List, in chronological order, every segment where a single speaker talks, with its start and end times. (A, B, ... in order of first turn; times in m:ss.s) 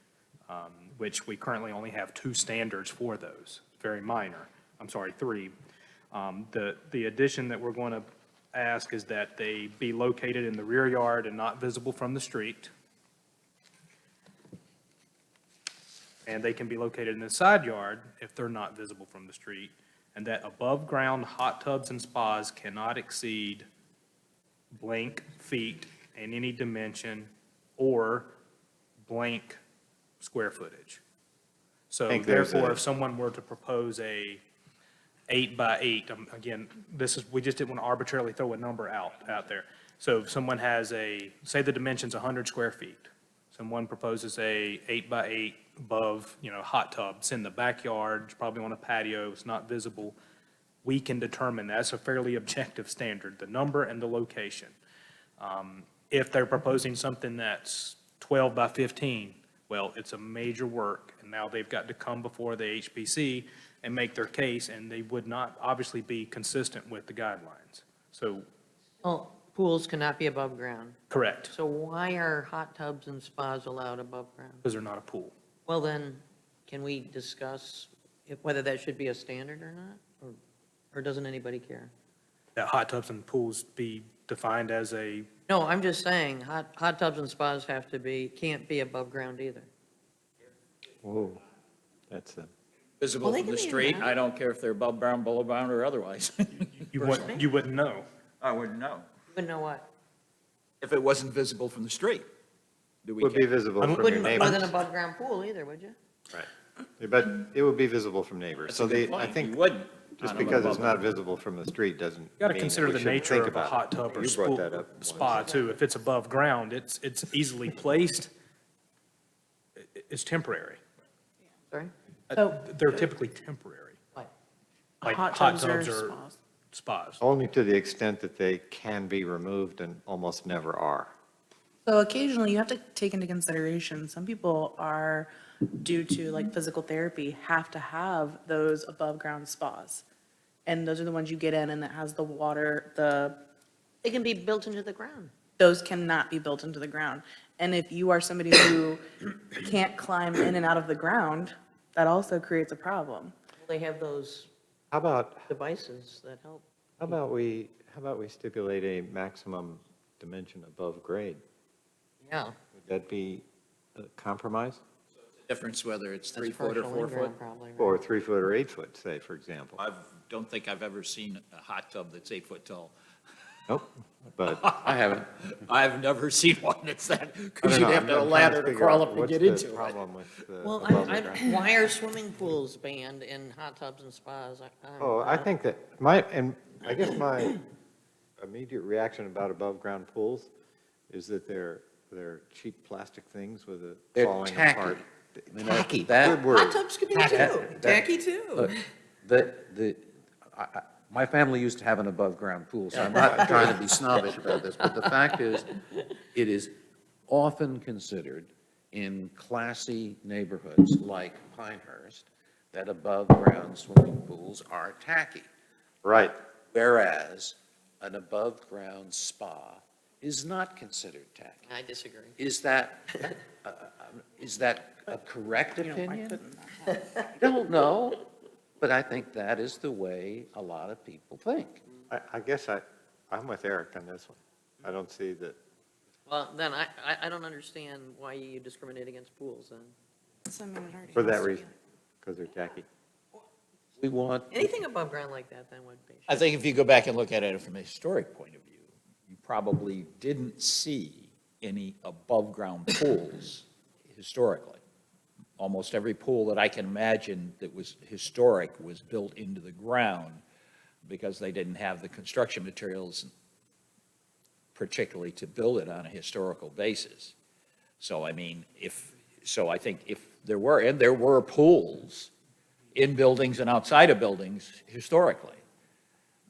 0:00.5-0:05.5 A
0:06.1-0:12.7 A
0:16.3-0:23.7 A
0:24.7-0:28.3 A
0:29.1-0:29.6 A
0:30.2-0:31.0 A
0:31.9-0:34.4 A
0:32.1-0:32.8 B
0:35.3-0:50.2 A
0:50.8-0:54.8 A
0:55.4-1:08.5 A
1:09.0-1:14.6 C
1:11.1-1:11.5 A
1:14.6-1:15.3 A
1:15.7-1:20.4 C
1:20.9-1:21.9 C
1:22.6-1:25.3 A
1:25.5-1:29.7 C
1:31.0-1:31.4 B
1:32.1-1:32.5 B
1:33.0-1:37.3 D
1:33.2-1:34.1 C
1:36.9-1:38.1 A
1:38.4-1:39.1 D
1:39.3-1:39.9 C
1:40.8-1:42.3 D
1:43.0-1:43.5 D
1:43.2-1:44.7 B
1:43.8-1:44.6 A
1:44.0-1:46.0 C
1:47.0-1:49.5 B
1:48.7-1:51.0 D
1:50.2-1:55.6 B
1:52.4-1:58.3 A
1:59.8-2:00.8 A
2:02.3-2:04.0 A
2:05.0-2:06.4 E
2:05.0-2:06.2 A
2:06.7-2:07.2 A
2:07.2-2:11.1 B
2:11.8-2:20.0 E
2:20.7-2:23.4 E
2:24.0-2:25.3 C
2:25.6-2:33.4 E
2:33.6-2:34.5 C
2:34.9-2:35.5 B
2:35.5-2:36.7 C
2:37.0-2:41.4 B
2:42.2-2:42.6 C
2:42.8-2:43.4 B
2:44.0-2:44.8 B
2:45.5-2:47.4 D
2:46.3-2:48.0 C
2:47.8-2:49.8 B
2:49.8-2:52.9 D
2:53.7-2:54.7 B
2:54.4-3:00.0 D
2:54.8-2:55.3 F
2:57.6-3:01.8 B
3:00.6-3:05.5 C
3:05.0-3:07.6 B
3:08.4-3:10.5 B
3:11.1-3:16.8 B
3:14.2-3:16.4 F
3:16.5-3:18.7 C
3:17.1-3:25.8 F
3:22.9-3:23.6 C
3:23.4-3:23.7 B
3:26.3-3:26.8 F
3:27.3-3:35.5 F
3:36.0-3:36.4 B
3:36.1-3:41.7 F
3:41.7-3:42.4 C
3:42.4-3:46.4 F
3:45.8-3:47.3 E
3:47.4-3:48.2 F
3:48.8-3:51.8 F
3:52.1-3:55.6 B
3:56.3-3:59.9 C
4:00.5-4:01.7 E
4:01.1-4:01.7 B
4:02.2-4:02.9 B
4:04.0-4:04.8 F
4:04.5-4:06.5 C
4:06.3-4:14.8 D
4:15.6-4:20.4 D
4:21.0-4:23.3 D
4:24.8-4:27.4 D
4:28.0-4:32.3 D
4:32.9-4:35.6 D